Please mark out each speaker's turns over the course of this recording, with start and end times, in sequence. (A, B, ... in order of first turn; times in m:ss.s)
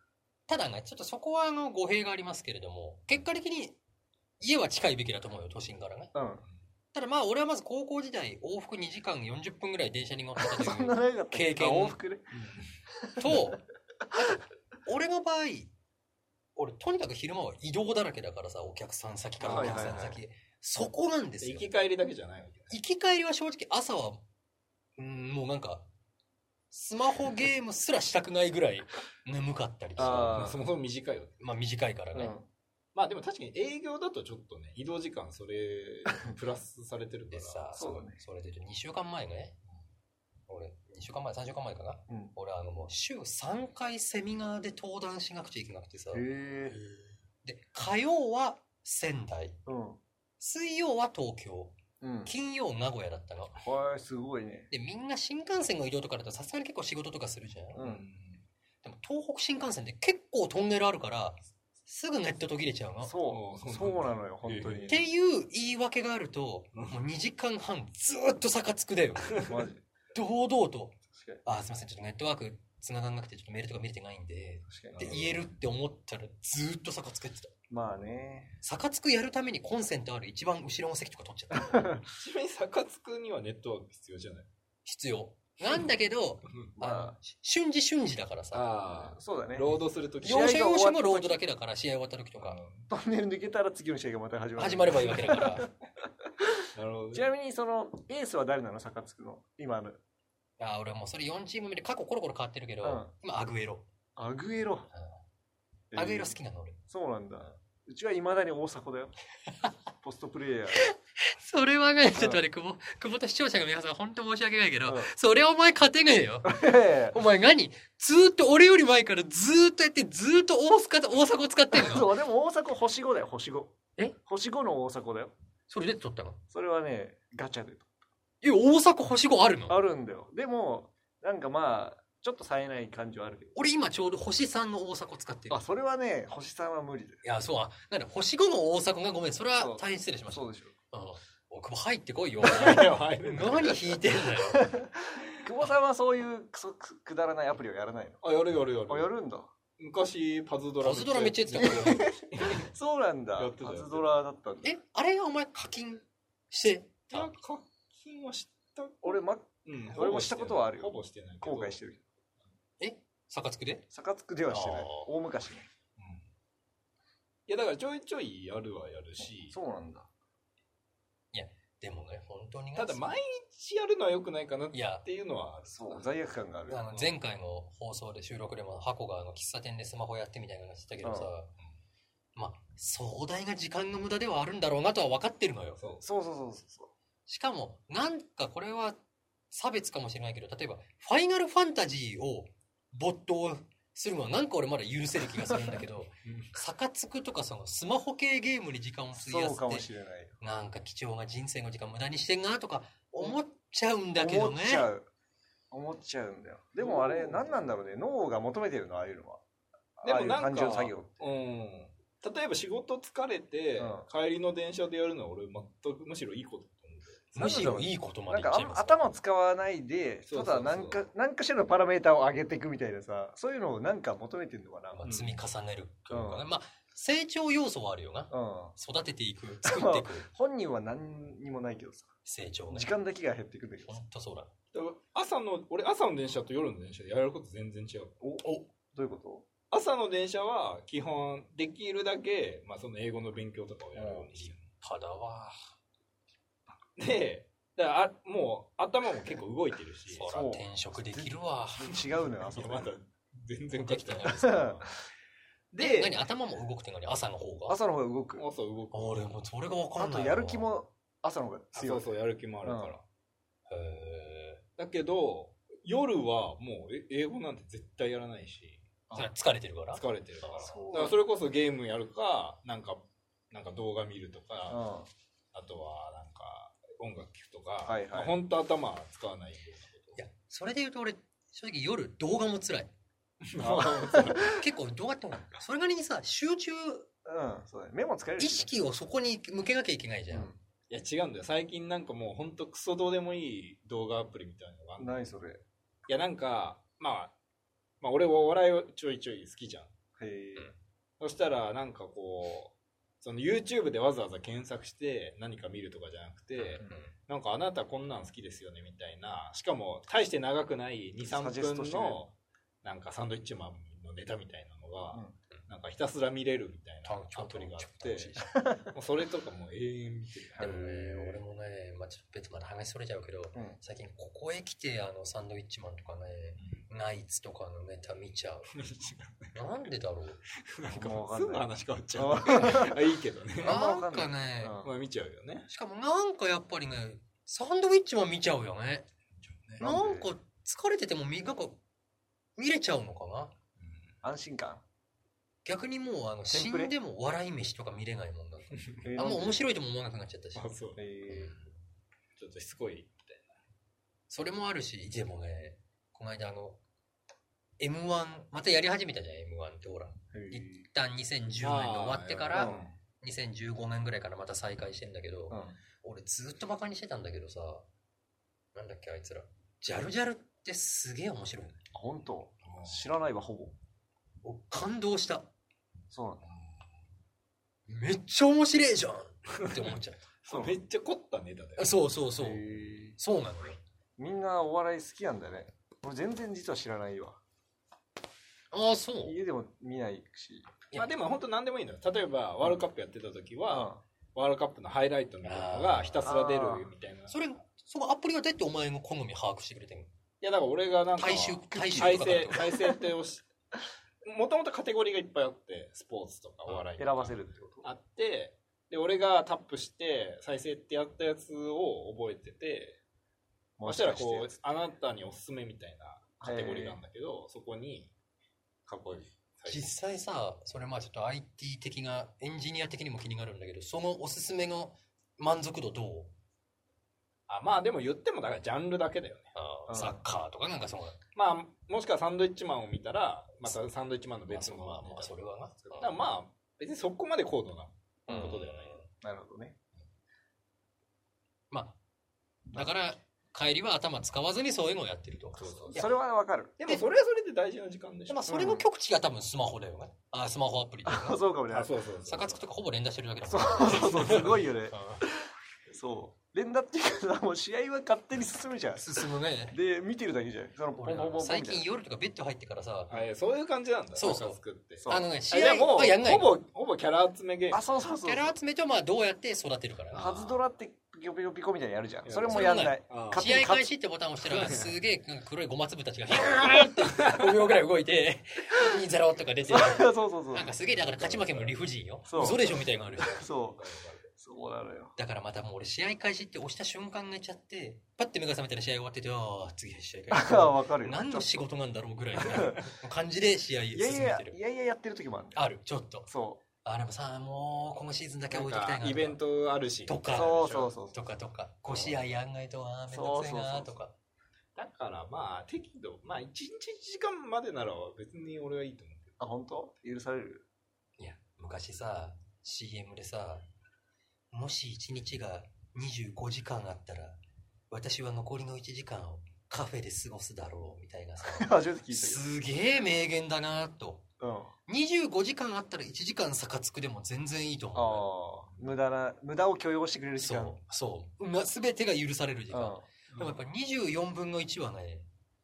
0:00.5-0:03.8 A
0:04.4-0:06.1 A
0:06.1-0:06.4 B
0:06.9-0:12.0 A
0:10.4-0:12.2 B
0:12.3-0:12.7 C
0:12.9-0:13.6 B
0:13.2-0:13.6 A
0:14.9-0:15.7 A
0:16.6-0:21.7 A
0:19.4-0:20.1 C
0:19.4-0:20.2 B
0:21.4-0:22.8 C
0:22.7-0:24.2 A
0:25.0-0:25.9 A
0:26.7-0:30.5 A
0:30.0-0:30.6 B
0:30.0-0:31.4 C
0:31.4-0:32.4 A
0:32.1-0:32.5 B
0:33.0-0:37.7 C
0:37.3-0:39.6 A
0:37.8-0:38.2 B
0:40.5-0:46.3 A
0:46.1-0:46.8 B
0:47.4-0:49.6 A
0:49.7-0:50.0 B
0:50.4-0:53.6 A
0:52.0-0:52.3 B
0:53.6-0:54.7 B
0:54.7-0:57.8 A
0:57.8-0:58.0 B
0:57.8-0:58.4 C
0:58.8-1:03.2 A
1:03.0-1:04.9 B
1:03.3-1:05.1 C
1:04.9-1:09.5 A
1:09.4-1:09.8 B
1:10.1-1:17.5 A
1:11.1-1:11.4 B
1:14.7-1:15.4 B
1:15.0-1:15.3 C
1:17.7-1:18.5 B
1:18.6-1:21.8 A
1:21.7-1:22.0 B
1:22.1-1:24.5 C
1:24.8-1:28.7 A
1:26.8-1:27.2 B
1:28.5-1:30.5 C
1:28.9-1:31.4 B
1:30.2-1:32.6 A
1:32.4-1:32.9 C
1:32.9-1:35.7 B
1:34.6-1:35.7 A
1:36.4-1:40.0 B
1:36.8-1:37.3 C
1:40.6-1:43.9 A
1:42.8-1:43.1 B
1:44.2-1:44.9 B
1:45.9-1:46.3 B
1:46.0-1:46.8 A
1:46.9-1:49.1 B
1:50.0-1:50.8 B
1:50.7-2:02.1 A
1:54.9-1:55.1 B
1:56.4-1:57.2 B
2:01.7-2:05.3 B
2:05.7-2:06.4 A
2:06.5-2:07.9 B
2:08.4-2:09.8 A
2:09.7-2:13.6 B
2:13.6-2:15.6 A
2:15.5-2:17.2 B
2:17.2-2:24.7 A
2:19.6-2:20.7 B
2:22.4-2:24.4 C
2:24.5-2:28.2 B
2:28.2-2:29.1 C
2:28.9-2:29.5 B
2:29.8-2:32.7 C
2:30.8-2:32.2 A
2:31.6-2:34.7 B
2:33.4-2:34.1 C
2:34.6-2:37.3 A
2:37.1-2:41.8 C
2:39.0-2:42.0 B
2:42.8-2:43.8 A
2:43.9-2:45.7 B
2:44.5-2:45.1 A
2:46.0-2:46.2 C
2:47.5-2:49.6 C
2:49.5-2:50.1 B
2:51.3-2:53.0 A
2:52.8-2:56.1 C
2:54.7-2:55.0 A
2:55.7-2:56.8 B
2:56.7-3:01.5 A
3:01.0-3:01.3 B
3:02.4-3:05.8 A
3:06.0-3:06.9 B
3:07.3-3:09.0 A
3:09.5-3:19.9 A
3:16.2-3:16.5 C
3:19.2-3:20.4 B
3:20.4-3:24.9 A
3:24.2-3:25.1 B
3:25.7-3:29.4 B
3:26.8-3:27.6 C
3:30.0-3:31.2 B
3:30.0-3:37.6 C
3:33.8-3:34.0 B
3:37.4-3:39.0 A
3:37.4-3:45.1 B
3:40.3-3:41.0 C
3:44.9-3:50.3 A
3:45.0-3:45.4 C
3:46.1-3:46.4 B
3:48.3-3:48.8 B
3:49.6-3:52.1 B
3:52.3-3:52.9 A
3:52.7-3:54.0 B
3:53.9-3:54.5 A
3:54.7-3:58.2 C
3:58.2-3:59.5 B
3:59.7-4:04.7 C
4:04.0-4:04.3 B
4:04.4-4:05.6 A
4:07.0-4:10.3 C
4:10.1-4:12.0 A
4:10.3-4:12.9 B
4:12.4-4:14.8 C
4:13.8-4:14.7 A
4:14.4-4:14.8 B
4:15.7-4:16.2 C
4:15.8-4:17.8 A
4:17.7-4:18.4 B
4:18.4-4:19.3 C
4:18.9-4:20.7 A
4:20.0-4:22.1 B
4:21.7-4:23.0 C
4:22.6-4:23.0 B
4:23.7-4:24.6 A
4:24.8-4:28.8 C
4:29.2-4:30.0 A
4:29.9-4:34.8 C
4:30.6-4:31.2 B
4:34.7-4:35.1 B
4:35.5-4:40.2 C
4:37.8-4:38.4 B
4:40.2-4:42.9 A
4:43.4-4:44.6 C
4:43.6-4:44.5 B
4:44.5-4:47.1 A
4:47.2-4:48.7 B
4:48.4-4:50.5 A
4:50.3-4:50.6 B
4:50.9-4:55.3 C
4:55.0-4:55.6 B
4:56.1-4:57.3 C
4:58.0-4:59.9 C
5:00.2-5:00.7 B
5:01.2-5:21.4 C
5:06.6-5:07.1 A
5:11.2-5:12.2 B
5:17.1-5:18.6 A
5:20.6-5:28.7 A
5:28.7-5:29.6 C
5:29.5-5:30.4 A
5:30.6-5:33.8 C
5:30.8-5:33.0 B
5:33.6-5:34.9 B
5:33.6-5:34.8 A
5:34.8-5:35.7 C
5:35.7-5:39.1 A
5:39.4-5:39.8 C
5:39.8-5:40.3 B
5:39.8-5:41.8 A
5:42.6-5:43.5 A
5:43.8-5:44.1 C
5:44.2-5:44.8 B
5:45.6-5:50.7 A
5:46.5-5:46.9 B
5:48.8-5:49.0 C
5:49.0-5:49.6 B
5:50.6-5:51.6 C
5:51.0-5:51.6 B
5:52.4-5:53.6 C
5:54.3-5:56.8 A
5:57.8-6:07.9 A
6:00.3-6:00.8 B
6:01.6-6:02.9 C
6:02.5-6:02.9 B
6:05.5-6:05.8 B
6:08.8-6:11.8 A
6:11.9-6:13.8 B
6:12.7-6:13.0 C
6:14.4-6:15.5 A
6:16.1-6:16.4 B
6:16.4-6:16.7 C
6:17.9-6:20.3 A
6:19.5-6:22.0 C
6:20.5-6:20.8 B
6:21.8-6:22.6 A
6:22.4-6:23.2 B
6:23.2-6:23.8 A
6:24.2-6:27.4 B
6:28.7-6:29.4 A
6:29.2-6:30.7 B
6:31.0-6:37.4 C
6:33.7-6:34.0 B
6:35.4-6:36.3 A
6:36.2-6:36.9 B
6:37.3-6:40.1 A
6:40.4-6:43.5 C
6:41.2-6:42.6 A
6:41.7-6:42.8 B
6:44.2-6:53.0 C
6:46.7-6:47.9 B
6:53.8-6:54.6 B
6:53.9-6:58.1 C
6:56.4-6:57.0 B
6:58.9-6:59.9 C
6:59.7-7:06.3 A
7:07.5-7:09.5 C
7:09.6-7:11.2 A
7:09.9-7:10.2 B
7:11.4-7:15.3 C
7:14.5-7:16.2 A
7:15.9-7:19.0 C
7:18.3-7:18.6 B
7:18.3-7:19.0 A
7:19.2-7:19.8 B
7:21.7-7:22.0 A
7:22.7-7:26.1 A
7:25.5-7:26.1 C
7:26.0-7:26.8 B
7:26.8-7:28.5 C
7:28.3-7:31.4 A
7:28.5-7:28.8 B
7:31.1-7:32.0 B
7:31.7-7:32.6 C
7:32.3-7:35.2 A
7:33.5-7:39.1 B
7:39.0-7:39.8 A
7:39.7-7:41.8 B
7:41.0-7:43.2 A
7:43.1-7:47.9 C
7:44.2-7:46.5 A
7:45.0-7:45.3 B
7:47.7-7:48.6 B
7:48.2-7:50.6 A
7:50.1-7:53.9 B
7:52.2-7:53.5 C
7:52.5-8:03.5 A
7:54.5-7:54.9 C
7:57.1-7:57.5 C
7:59.7-8:00.7 B
8:00.9-8:01.8 C
8:02.3-8:02.8 B
8:03.3-8:03.8 B
8:03.5-8:04.2 C
8:04.4-8:05.1 B
8:05.2-8:14.6 A
8:10.3-8:11.6 B
8:12.4-8:12.8 B
8:13.9-8:15.6 B
8:15.6-8:16.3 A
8:16.3-8:16.6 B
8:16.8-8:19.4 A
8:18.5-8:20.9 C
8:20.1-8:24.1 A
8:20.3-8:21.2 B
8:21.9-8:22.1 C
8:23.1-8:24.0 B
8:24.8-8:29.3 C
8:29.4-8:30.6 B
8:31.2-8:33.6 A
8:34.5-8:37.4 A
8:37.9-8:44.2 A
8:41.5-8:42.4 B
8:44.4-8:44.7 B
8:44.9-8:48.3 A
8:48.0-8:50.8 B
8:50.4-8:55.3 A
8:52.7-8:53.0 B
8:53.3-8:53.6 C